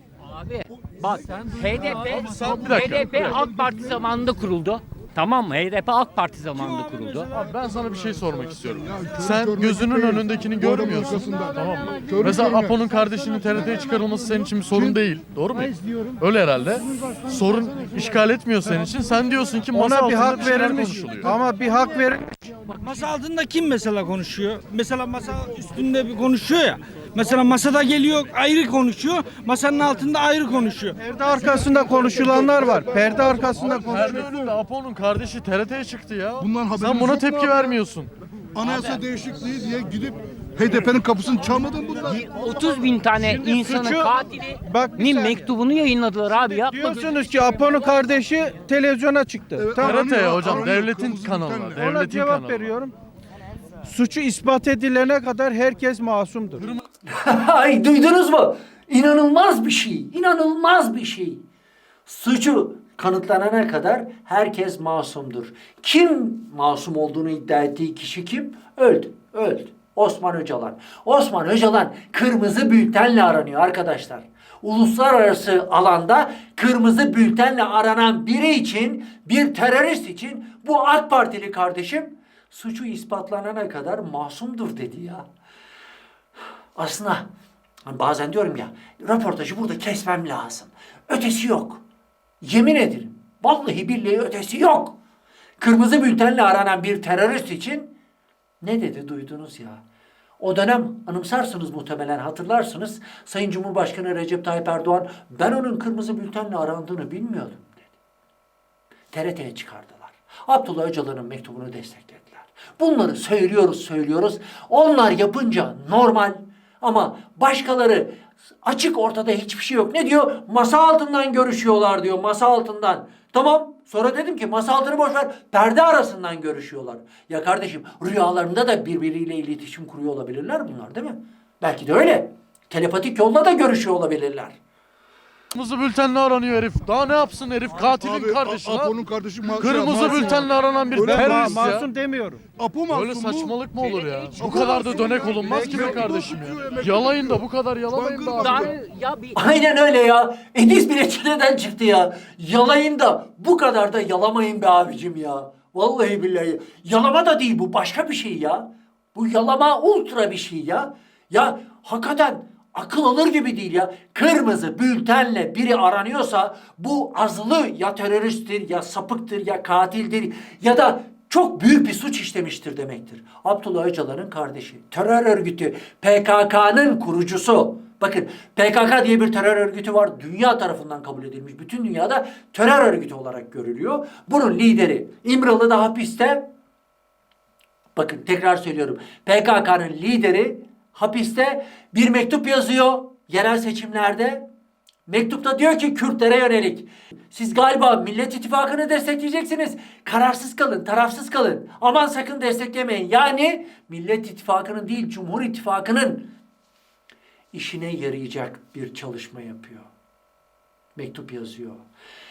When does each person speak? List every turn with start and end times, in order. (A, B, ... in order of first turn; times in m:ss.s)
0:00.2-0:07.3 A
0:02.1-0:03.4 B
0:06.6-0:07.2 C
0:07.3-0:21.3 B
0:08.8-0:11.5 D
0:12.0-0:12.8 D
0:14.7-0:15.0 D
0:19.7-0:22.4 E
0:22.8-0:31.0 C
0:31.0-0:33.8 E
0:31.7-0:34.5 D
0:33.6-0:38.1 B
0:36.4-0:37.8 D
0:38.5-0:42.6 D
0:38.6-0:39.0 A
0:42.0-0:46.8 A
0:43.3-0:45.4 E
0:46.6-0:50.1 E
0:49.6-0:51.8 D
0:49.8-0:52.8 B
0:51.8-0:52.9 E
0:53.9-0:56.7 E
0:57.1-1:01.4 F
1:02.1-1:25.2 F
1:26.8-1:27.3 F
1:27.9-1:31.8 F
1:32.4-1:35.0 F
1:35.6-1:37.9 F
1:38.6-1:39.8 F
1:40.4-1:47.7 F
1:49.1-2:14.6 F
2:15.5-2:21.9 B
2:17.9-2:21.7 D
2:21.0-2:22.4 E
2:22.6-2:23.6 D
2:22.9-2:28.6 B
2:23.8-2:24.5 A
2:24.4-2:28.8 D
2:25.5-2:25.9 E
2:28.4-2:29.4 A
2:29.4-3:06.4 F
3:08.0-3:14.4 F
3:15.1-3:26.2 F
3:27.5-3:29.9 F
3:31.0-3:31.8 F